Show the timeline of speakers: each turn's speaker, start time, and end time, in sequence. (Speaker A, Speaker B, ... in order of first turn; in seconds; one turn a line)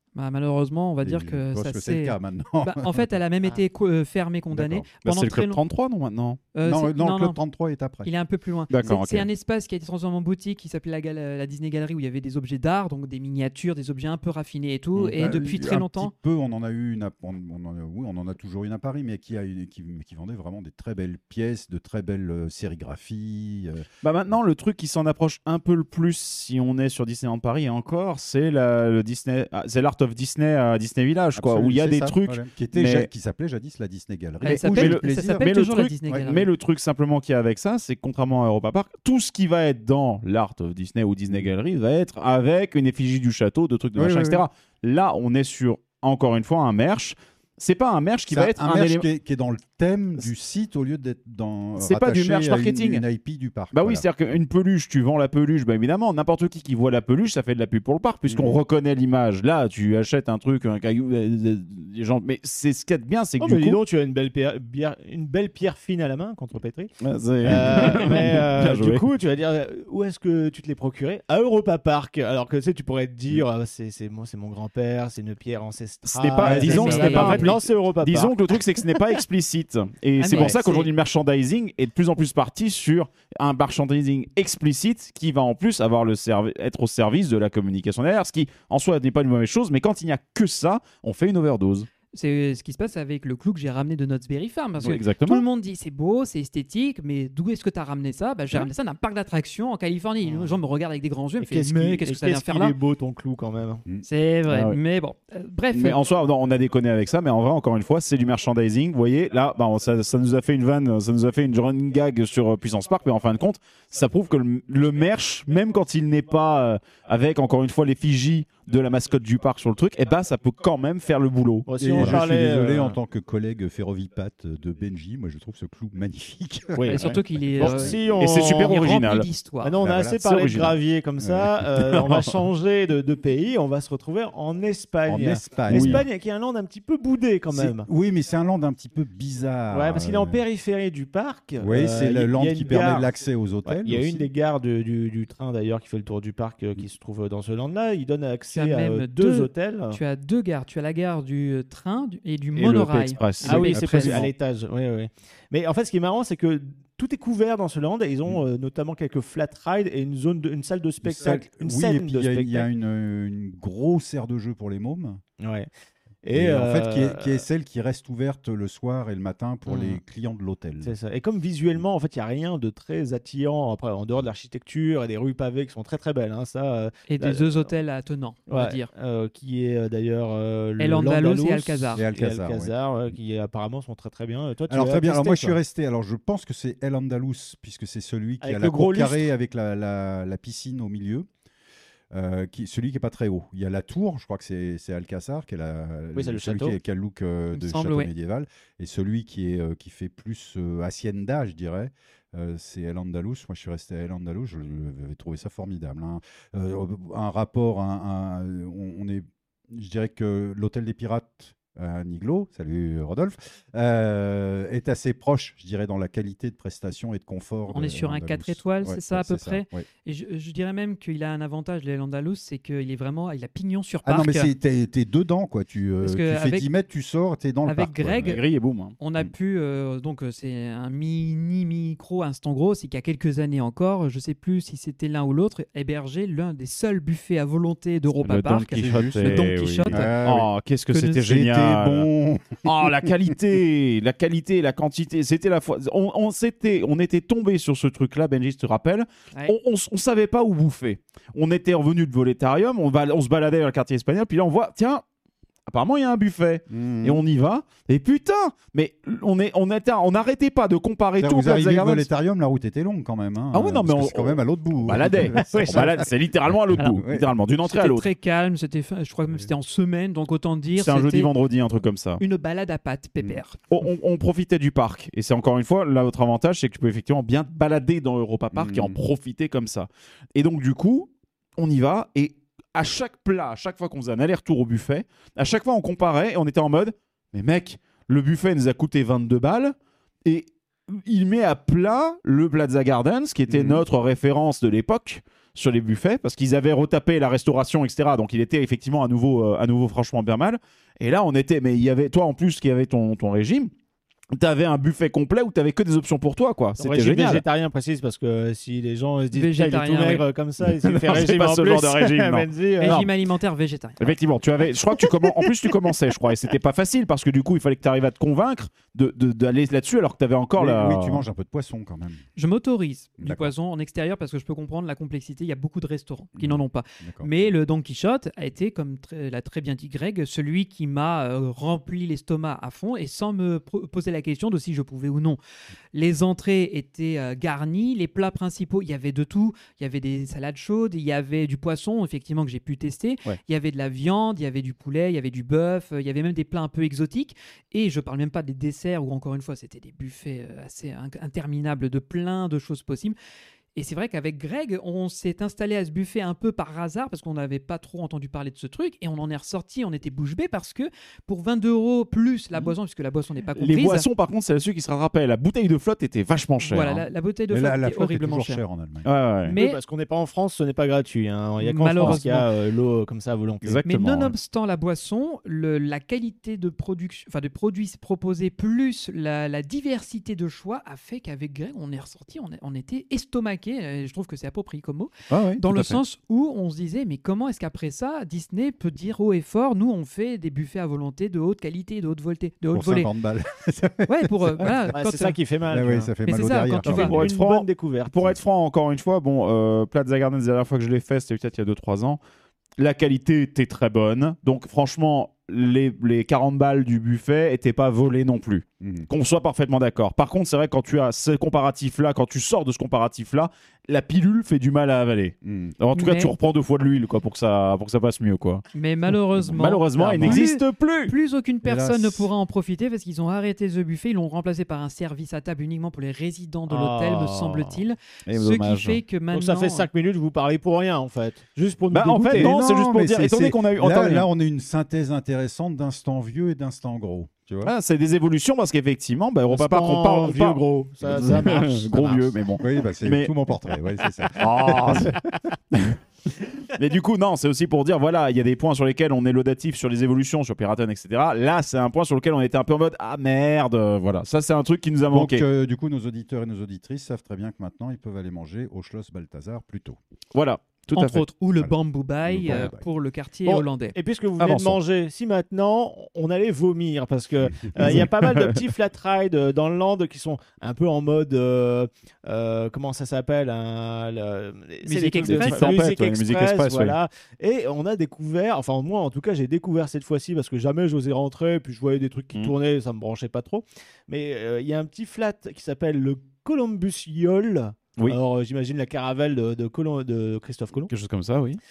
Speaker A: 0.1-5.6
Speaker B: 1.0-3.1
Speaker B: 4.5-4.9
Speaker C: 5.0-6.4
Speaker A: 6.5-7.4
Speaker B: 6.6-8.1
Speaker A: 8.0-16.1
Speaker C: 8.7-9.3
Speaker B: 14.9-23.9
Speaker C: 24.0-33.1
Speaker B: 31.3-35.4
Speaker A: 34.4-36.5
Speaker C: 34.5-49.0
Speaker B: 44.0-44.5
Speaker B: 48.3-54.4
Speaker C: 51.8-53.0
Speaker C: 53.7-63.8
Speaker B: 58.3-58.6
Speaker D: 63.4-66.9
Speaker C: 67.0-69.0
Speaker D: 67.4-78.6
Speaker B: 67.4-68.0
Speaker C: 76.0-91.9
Speaker B: 76.4-77.5
Speaker A: 76.5-77.5
Speaker A: 80.2-80.9
Speaker A: 92.1-102.8
Speaker C: 94.8-95.4
Speaker D: 100.2-100.5
Speaker D: 101.4-103.8
Speaker A: 104.0-106.0
Speaker C: 104.5-104.8
Speaker C: 105.7-122.2
Speaker D: 121.7-123.0
Speaker B: 121.8-128.2
Speaker D: 126.8-128.8
Speaker A: 126.8-129.7
Speaker C: 128.2-129.3
Speaker D: 129.6-137.9
Speaker B: 129.8-130.2
Speaker C: 130.2-130.8
Speaker B: 131.2-131.7
Speaker C: 131.8-132.4
Speaker B: 135.1-136.0
Speaker C: 135.7-136.1
Speaker B: 137.5-140.4
Speaker D: 139.7-143.1
Speaker B: 141.6-144.3
Speaker D: 143.6-150.0
Speaker A: 148.5-154.3
Speaker C: 152.6-154.3
Speaker D: 153.4-162.7
Speaker B: 161.0-165.2
Speaker D: 165.4-165.7
Speaker D: 166.2-167.4
Speaker B: 166.3-170.9
Speaker D: 169.7-170.0
Speaker D: 170.8-177.7
Speaker A: 177.1-178.9
Speaker D: 178.5-185.6
Speaker A: 180.8-182.0
Speaker B: 181.9-183.1
Speaker B: 184.7-191.3
Speaker D: 188.4-189.3
Speaker B: 192.1-219.8
Speaker D: 196.1-196.8
Speaker A: 197.5-198.1
Speaker A: 217.7-224.5
Speaker B: 224.0-228.4
Speaker A: 226.0-226.7
Speaker A: 227.6-228.4
Speaker C: 228.2-228.9
Speaker A: 229.0-240.1
Speaker C: 238.2-242.1
Speaker B: 238.7-243.1
Speaker C: 242.6-255.0
Speaker C: 255.7-262.1
Speaker B: 256.7-257.2
Speaker B: 261.2-266.1
Speaker C: 263.5-268.1
Speaker D: 265.3-266.0
Speaker B: 266.7-267.3
Speaker A: 267.6-271.3
Speaker C: 270.8-272.2
Speaker A: 272.2-273.6
Speaker C: 273.7-289.7
Speaker B: 278.5-279.0
Speaker C: 290.2-303.7
Speaker B: 293.5-293.8
Speaker C: 304.3-307.4
Speaker D: 306.8-313.1
Speaker A: 309.3-310.2
Speaker C: 310.6-313.1
Speaker A: 312.8-314.1
Speaker C: 314.0-321.2
Speaker D: 315.0-315.7
Speaker B: 320.6-322.2
Speaker A: 322.4-335.4
Speaker B: 323.2-323.5
Speaker B: 326.4-327.3
Speaker A: 335.9-353.1
Speaker A: 353.7-364.1
Speaker C: 363.6-367.0
Speaker A: 366.6-368.6
Speaker B: 367.5-369.1
Speaker C: 369.0-369.6
Speaker A: 369.4-369.8
Speaker D: 369.5-373.8
Speaker A: 371.6-372.5
Speaker C: 373.6-374.3
Speaker A: 373.9-393.1
Speaker C: 385.3-386.0
Speaker B: 392.7-394.9
Speaker A: 394.1-395.4
Speaker D: 394.9-396.1
Speaker B: 395.7-397.3
Speaker A: 396.2-397.1
Speaker C: 396.9-402.2
Speaker D: 397.1-398.2
Speaker C: 402.8-421.1
Speaker B: 408.8-409.1
Speaker B: 415.4-415.7
Speaker A: 415.9-416.3
Speaker A: 418.7-429.9
Speaker B: 421.6-422.3
Speaker D: 426.7-427.8
Speaker C: 428.3-429.0
Speaker D: 429.3-432.5
Speaker C: 431.9-434.3
Speaker B: 432.3-437.7
Speaker C: 437.6-443.3
Speaker D: 439.5-442.4
Speaker B: 442.6-445.3
Speaker C: 444.3-445.2
Speaker C: 446.6-455.4
Speaker B: 455.1-460.0
Speaker C: 460.3-461.2
Speaker A: 460.9-463.9
Speaker B: 462.2-462.8
Speaker D: 463.4-490.9
Speaker C: 464.4-464.8
Speaker C: 467.8-468.6
Speaker A: 474.8-475.8
Speaker C: 475.2-477.0
Speaker C: 490.9-491.6